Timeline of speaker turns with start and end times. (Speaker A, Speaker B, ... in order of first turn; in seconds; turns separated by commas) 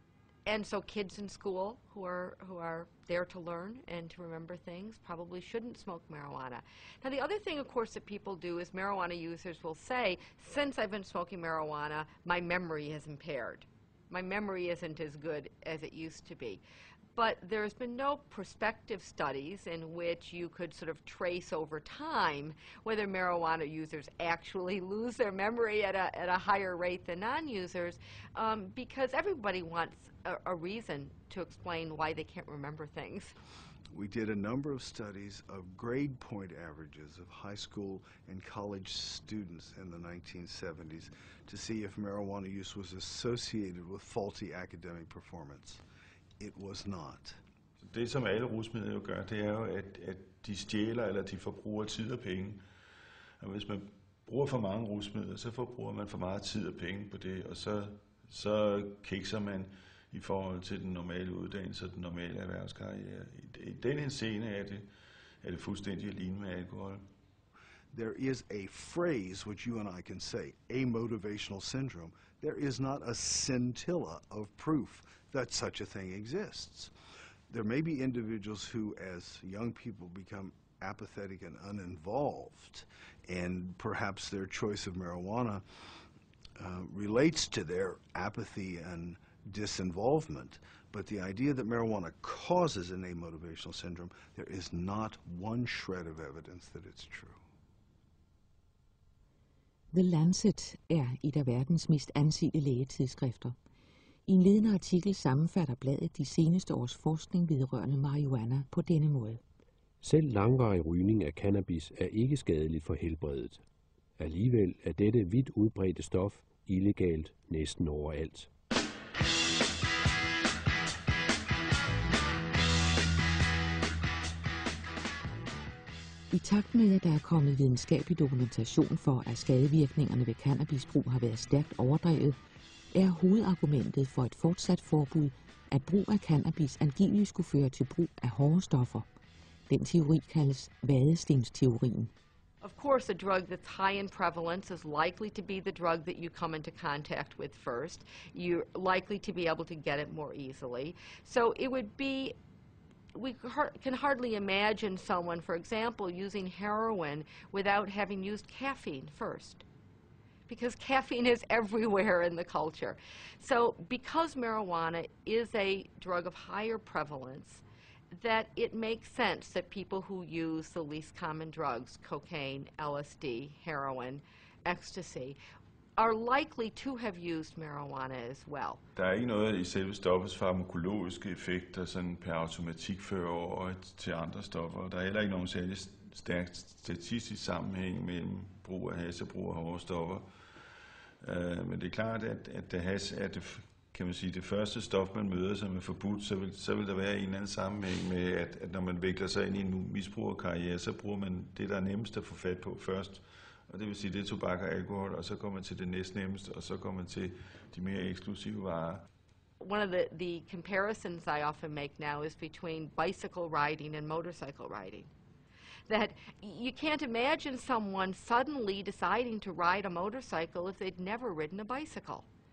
Speaker A: 0.5-16.6, Speaker A: 17.2-33.3, Speaker B: 33.9-45.8, Speaker B: 46.4-47.4, Speaker C: 47.8-52.6, Speaker C: 53.4-64.9, Speaker C: 65.4-67.1, Speaker B: 67.9-76.9, Speaker B: 77.5-85.8, Speaker B: 86.6-97.4, Speaker D: 99.9-103.6, Speaker D: 104.3-109.4, Speaker E: 110.0-113.6, Speaker E: 114.2-118.5, Speaker D: 126.3-132.4, Speaker D: 132.9-139.1, Speaker D: 139.7-142.1, Speaker A: 142.6-152.3, Speaker A: 153.2-159.6, Speaker A: 160.5-175.4, Speaker A: 176.0-178.8, Speaker C: 178.9-190.3, Speaker C: 191.2-209.0, Speaker A: 209.6-215.1, Speaker A: 215.9-222.3